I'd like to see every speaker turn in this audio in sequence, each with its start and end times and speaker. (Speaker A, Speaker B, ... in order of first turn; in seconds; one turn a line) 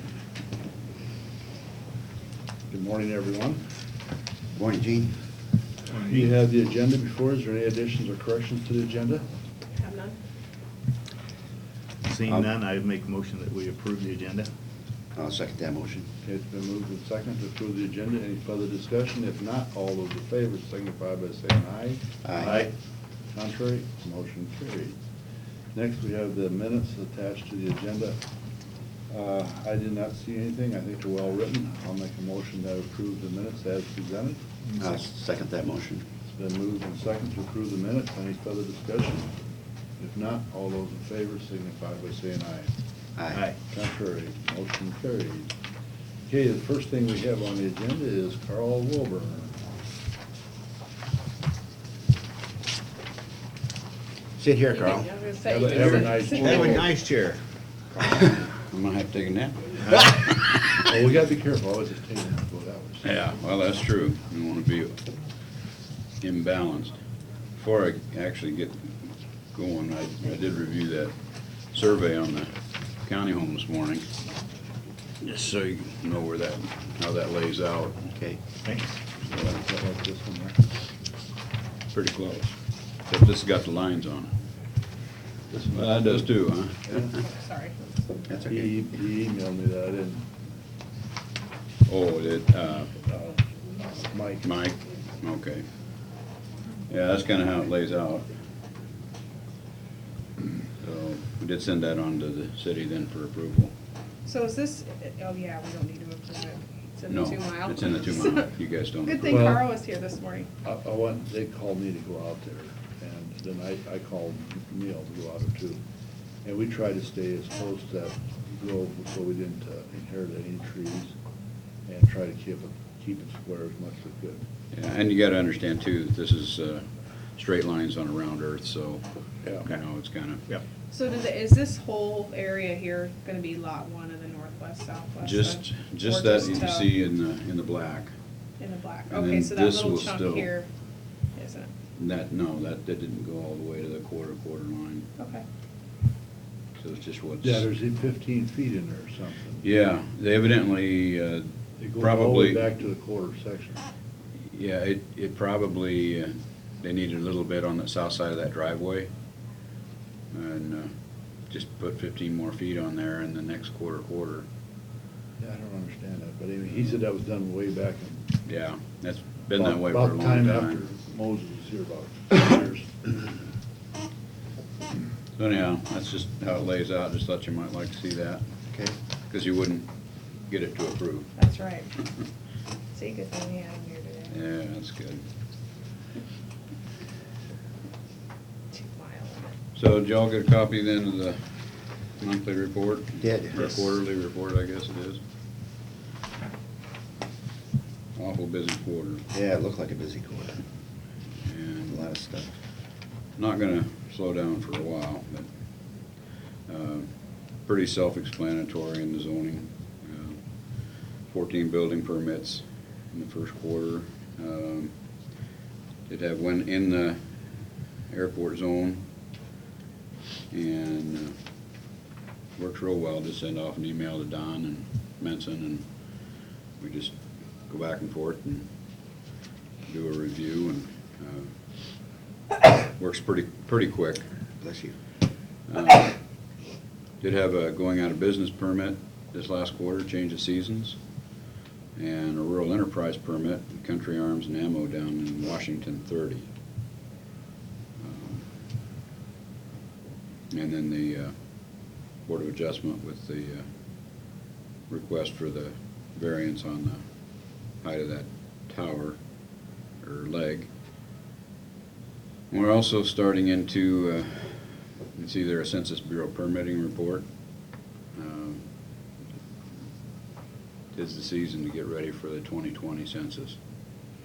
Speaker A: 2.7-3.6
Speaker B: 4.5-5.2
Speaker C: 5.9-6.3
Speaker A: 6.0-9.2
Speaker D: 9.8-10.2
Speaker C: 12.1-14.4
Speaker B: 15.1-16.1
Speaker A: 16.2-22.7
Speaker B: 22.2-22.6
Speaker A: 23.3-24.9
Speaker A: 25.7-28.2
Speaker A: 29.1-34.4
Speaker B: 34.8-36.0
Speaker A: 36.2-39.3
Speaker A: 40.0-42.7
Speaker B: 43.1-43.4
Speaker A: 43.7-45.5
Speaker A: 46.3-49.5
Speaker B: 54.4-55.1
Speaker D: 54.7-56.8
Speaker A: 55.4-56.9
Speaker B: 56.3-57.4
Speaker E: 58.1-60.5
Speaker A: 60.9-63.1
Speaker E: 63.0-64.9
Speaker E: 66.2-67.0
Speaker E: 67.6-68.8
Speaker E: 69.5-72.5
Speaker E: 73.0-74.0
Speaker E: 75.2-78.1
Speaker B: 78.1-78.4
Speaker E: 79.3-79.5
Speaker A: 79.3-80.5
Speaker E: 81.9-82.5
Speaker E: 83.1-84.3
Speaker A: 85.5-86.3
Speaker E: 85.7-87.2
Speaker A: 86.9-87.2
Speaker D: 87.2-88.2
Speaker B: 88.3-88.7
Speaker A: 88.5-90.2
Speaker E: 91.9-93.0
Speaker A: 93.8-94.5
Speaker E: 94.4-95.7
Speaker E: 96.9-98.3
Speaker E: 100.8-103.7
Speaker D: 104.2-108.5
Speaker E: 107.1-109.6
Speaker D: 109.0-110.5
Speaker A: 109.2-109.7
Speaker A: 110.6-115.8
Speaker A: 116.4-121.1
Speaker A: 121.9-124.4
Speaker E: 124.7-130.4
Speaker D: 130.9-136.9
Speaker E: 135.2-138.1
Speaker D: 138.6-140.7
Speaker E: 139.1-140.5
Speaker D: 141.3-141.7
Speaker E: 141.9-145.1
Speaker D: 145.2-145.4
Speaker E: 146.8-147.7
Speaker A: 147.4-149.7
Speaker E: 149.6-152.7
Speaker A: 151.8-153.8
Speaker E: 154.5-159.1
Speaker E: 160.3-160.9
Speaker E: 161.5-164.5
Speaker A: 165.4-168.3
Speaker E: 168.4-170.8
Speaker A: 169.5-173.1
Speaker E: 175.4-178.4
Speaker B: 178.7-178.9
Speaker E: 179.3-179.9
Speaker E: 180.4-181.3
Speaker D: 181.4-181.9
Speaker D: 182.9-184.4
Speaker E: 184.3-185.2
Speaker D: 188.7-189.5
Speaker E: 189.7-191.4
Speaker E: 192.1-195.2
Speaker B: 193.2-193.8
Speaker E: 198.2-199.2
Speaker B: 199.3-200.6
Speaker E: 201.4-202.1
Speaker B: 201.9-202.5
Speaker E: 203.4-205.5
Speaker E: 206.7-207.1
Speaker E: 207.6-214.9
Speaker E: 216.1-217.2
Speaker E: 218.1-219.0
Speaker E: 220.5-221.3
Speaker E: 222.6-228.7
Speaker E: 229.8-232.0
Speaker E: 233.0-234.2
Speaker B: 234.6-234.9
Speaker E: 235.7-236.2
Speaker E: 237.2-241.0
Speaker E: 241.9-246.5
Speaker E: 248.0-248.4
Speaker E: 250.5-253.7
Speaker E: 254.9-259.2
Speaker E: 260.0-260.7
Speaker E: 262.5-267.3
Speaker E: 268.1-268.6
Speaker E: 270.9-273.6